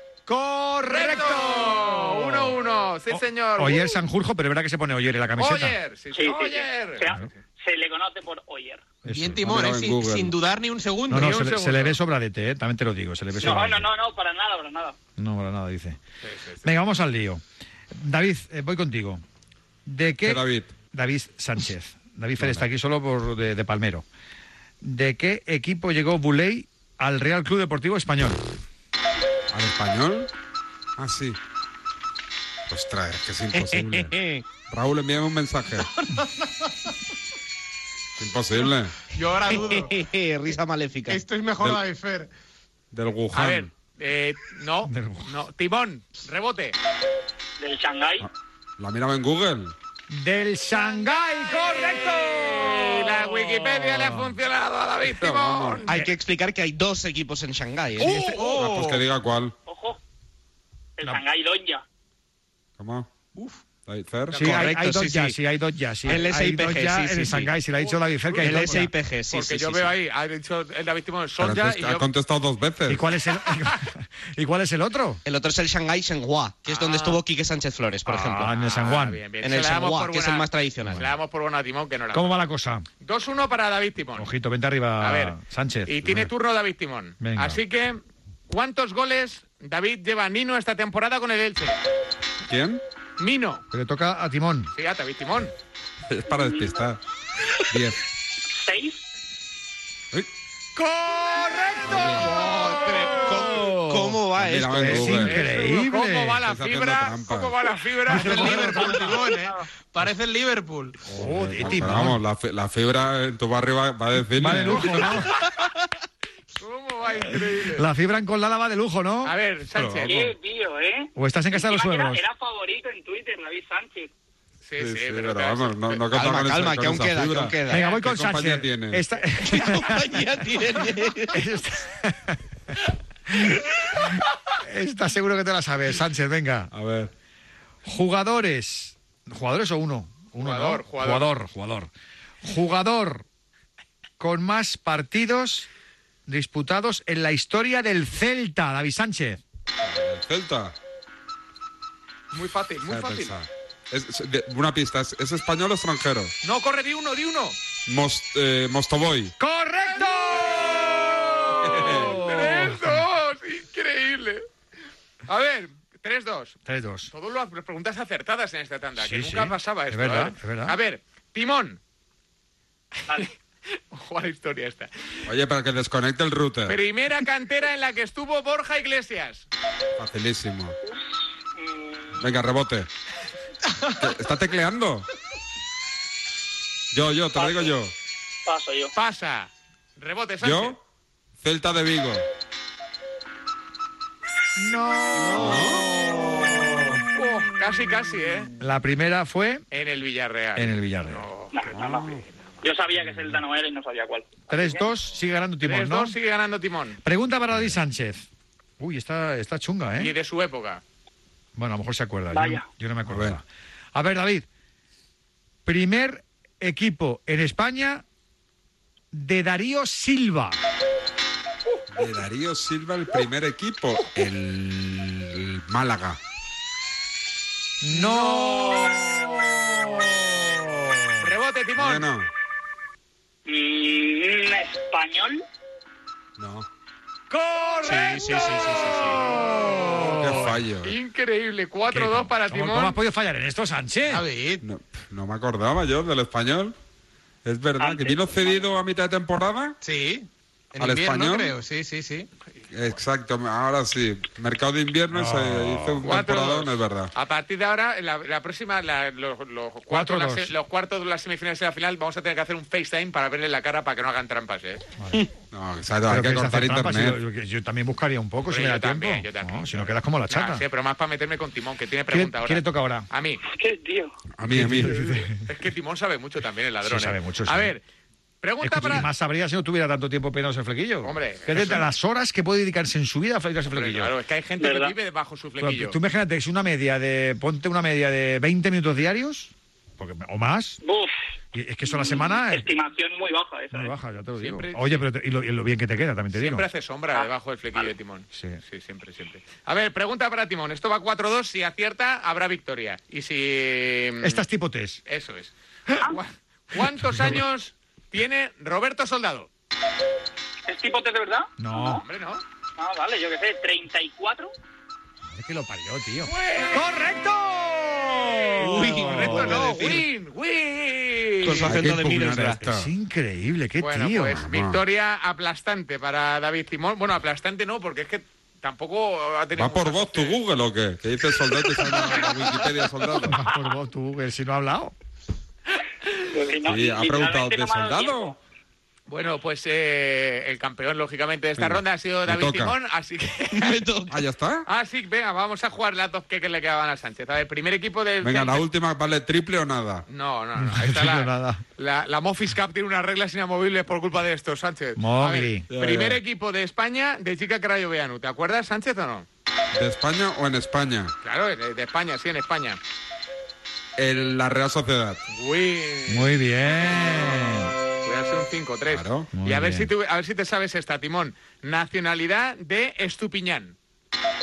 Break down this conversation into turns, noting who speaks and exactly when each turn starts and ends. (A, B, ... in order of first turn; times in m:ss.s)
0:00.3-0:02.6 A
0:00.8-0:04.0 B
0:03.1-0:05.8 A
0:05.4-0:07.2 B
0:06.1-0:08.8 C
0:09.0-0:09.5 A
0:09.0-0:11.4 D
0:09.4-0:10.4 E
0:11.1-0:13.9 A
0:11.1-0:12.0 B
0:13.4-0:15.0 C
0:15.2-0:16.0 A
0:16.2-0:16.7 B
0:16.6-0:17.4 A
0:17.9-0:19.2 A
0:19.8-0:24.0 A
0:20.2-0:20.7 E
0:24.8-0:28.4 A
0:29.5-0:30.3 E
0:31.0-0:31.4 E
0:32.7-0:34.2 E
0:33.6-0:34.4 F
0:34.7-0:35.9 E
0:38.2-0:38.9 E
0:39.1-0:39.9 D
0:39.4-0:41.2 F
0:41.1-0:42.3 D
0:42.9-0:43.7 E
0:43.3-0:46.8 B
0:44.8-0:45.4 A
0:47.6-0:48.3 C
0:48.2-0:49.7 E
0:50.1-0:54.3 A
0:52.5-0:55.9 B
0:55.0-0:55.8 E
0:55.9-0:58.8 F
0:58.0-0:59.5 E
0:58.3-0:58.9 D
0:59.7-1:00.0 C
1:01.0-1:01.8 C
1:02.8-1:03.1 E
1:03.8-1:04.4 E
1:04.3-1:08.9 A
1:04.3-1:05.4 F
1:06.0-1:07.5 F
1:07.8-1:12.1 B
1:08.4-1:09.9 F
1:11.4-1:13.0 E
1:12.9-1:15.2 A
1:15.2-1:18.5 F
1:16.7-1:17.2 B
1:18.0-1:19.2 A
1:18.4-1:22.3 B
1:19.4-1:21.1 F
1:22.1-1:22.8 A
1:23.0-1:24.3 B
1:24.2-1:26.3 A
1:25.0-1:25.4 B
1:25.9-1:31.8 B
1:27.2-1:27.6 A
1:32.5-1:32.8 E
1:33.2-1:33.6 B
1:33.7-1:34.7 A
1:34.7-1:35.5 B
1:36.1-1:37.0 E
1:36.4-1:36.8 C
1:37.7-1:38.0 E
1:38.5-1:39.0 C
1:40.8-1:46.4 A
1:42.1-1:45.2 F
1:44.4-1:45.4 E
1:45.1-1:49.2 B
1:46.4-1:47.6 E
1:48.1-1:50.9 D
1:48.2-1:49.0 A
1:51.1-1:55.2 E
1:51.1-1:52.2 A
1:54.4-1:55.3 A
1:56.6-1:57.8 B
1:57.7-1:59.3 A
1:59.2-2:00.2 B
1:59.7-2:00.2 E
2:00.0-2:04.1 C
2:01.2-2:02.2 A
2:04.6-2:06.0 B
2:04.8-2:09.0 E
2:06.1-2:07.9 F
2:07.7-2:10.2 A
2:09.4-2:11.3 F
2:11.3-2:12.4 A
2:13.3-2:14.0 A
2:14.6-2:16.7 A
2:16.7-2:17.1 E
2:17.8-2:21.9 A
2:20.4-2:21.3 B
2:22.4-2:23.2 A
2:24.2-2:25.7 A
2:26.3-2:29.4 A
2:29.8-2:30.7 E
2:32.3-2:33.3 B
2:32.8-2:36.3 E
2:36.4-2:37.6 B
2:37.9-2:39.3 E
2:39.4-2:43.0 A
2:41.5-2:44.4 B
2:41.6-2:42.1 E
2:45.3-2:46.6 B
2:46.6-2:47.1 A
2:47.1-2:51.8 B
2:49.0-2:50.8 A
2:53.9-2:54.9 B
2:55.2-2:56.8 E
2:56.7-2:59.4 B
3:00.0-3:00.8 E
3:01.6-3:02.2 C
3:02.1-3:02.9 E
3:04.0-3:05.1 E
3:06.9-3:07.9 E
3:07.4-3:07.7 C
3:08.4-3:08.9 C
3:09.0-3:10.8 B
3:10.4-3:10.8 E
3:11.4-3:12.2 E
3:14.6-3:16.6 A
3:15.3-3:15.8 E
3:17.1-3:18.5 B
3:18.6-3:19.6 A
3:19.7-3:21.5 B
3:20.6-3:21.2 A
3:21.5-3:24.8 C
3:21.7-3:22.2 E
3:24.5-3:26.1 A
3:25.6-3:27.0 B
3:27.0-3:28.2 A
3:28.8-3:30.1 A
3:30.0-3:30.8 B
3:31.6-3:34.4 A
3:32.3-3:32.6 C
3:33.1-3:33.4 E
3:35.6-3:38.0 A
3:39.1-3:40.6 A
3:41.9-3:46.2 E
3:47.8-3:51.2 A
3:47.9-3:49.1 B
3:51.2-3:52.1 B
3:51.8-3:52.3 E
3:53.4-3:55.4 C
3:56.4-3:56.7 E
3:57.3-4:00.4 A
3:57.9-3:59.2 F
3:59.5-4:03.0 B
4:00.1-4:00.9 E
4:01.9-4:04.2 A
4:04.1-4:04.6 D
4:04.6-4:06.7 E
4:07.4-4:09.8 E
4:07.8-4:08.6 C
4:09.8-4:12.3 D
4:10.8-4:11.6 E
4:12.7-4:17.1 E
4:15.1-4:16.0 A
4:16.0-4:24.8 B
4:19.9-4:20.5 A
4:25.5-4:27.2 E
4:26.1-4:30.6 A
4:28.5-4:33.4 B
4:32.1-4:33.0 A
4:33.5-4:34.1 C
4:34.4-4:35.0 E
4:34.5-4:35.4 A
4:34.7-4:37.8 B
4:36.8-4:37.7 A
4:38.4-4:39.1 B
4:38.6-4:44.1 A
4:41.0-4:41.9 B
4:43.7-4:46.0 B
4:44.6-4:44.9 C
4:45.6-4:50.8 A
4:50.8-4:51.1 C
4:51.5-4:52.7 A
4:51.9-4:53.9 C
4:53.7-4:56.7 A
4:54.4-4:55.0 B
4:56.3-5:04.4 B
4:58.3-4:58.6 A
5:04.2-5:05.0 A
5:05.0-5:09.5 B
5:07.0-5:07.4 A
5:10.7-5:12.0 C
5:11.6-5:12.0 A
5:12.0-5:12.4 B
5:12.8-5:14.5 C
5:15.3-5:20.0 A
5:16.2-5:16.9 B
5:18.6-5:21.7 B
5:18.6-5:20.0 F
5:21.4-5:22.6 F
5:21.6-5:22.9 E
5:22.6-5:24.4 A
5:23.8-5:30.4 B
5:24.3-5:24.8 E
5:29.6-5:33.4 E
5:33.3-5:34.9 A
5:36.3-5:38.4 C
5:36.6-5:38.3 E
5:39.1-5:43.8 B
5:41.6-5:42.7 E
5:43.5-5:44.1 F
5:44.1-5:44.6 E
5:44.7-5:48.6 B
5:48.2-5:50.0 E
5:50.1-5:59.2 B
5:50.6-5:51.6 A
5:55.0-5:55.7 A
5:55.7-5:56.2 E
5:59.7-6:01.1 E
6:01.2-6:02.8 B
6:04.0-6:05.2 E
6:05.3-6:13.7 B
6:06.1-6:07.7 A
6:08.9-6:09.3 E
6:09.3-6:09.9 A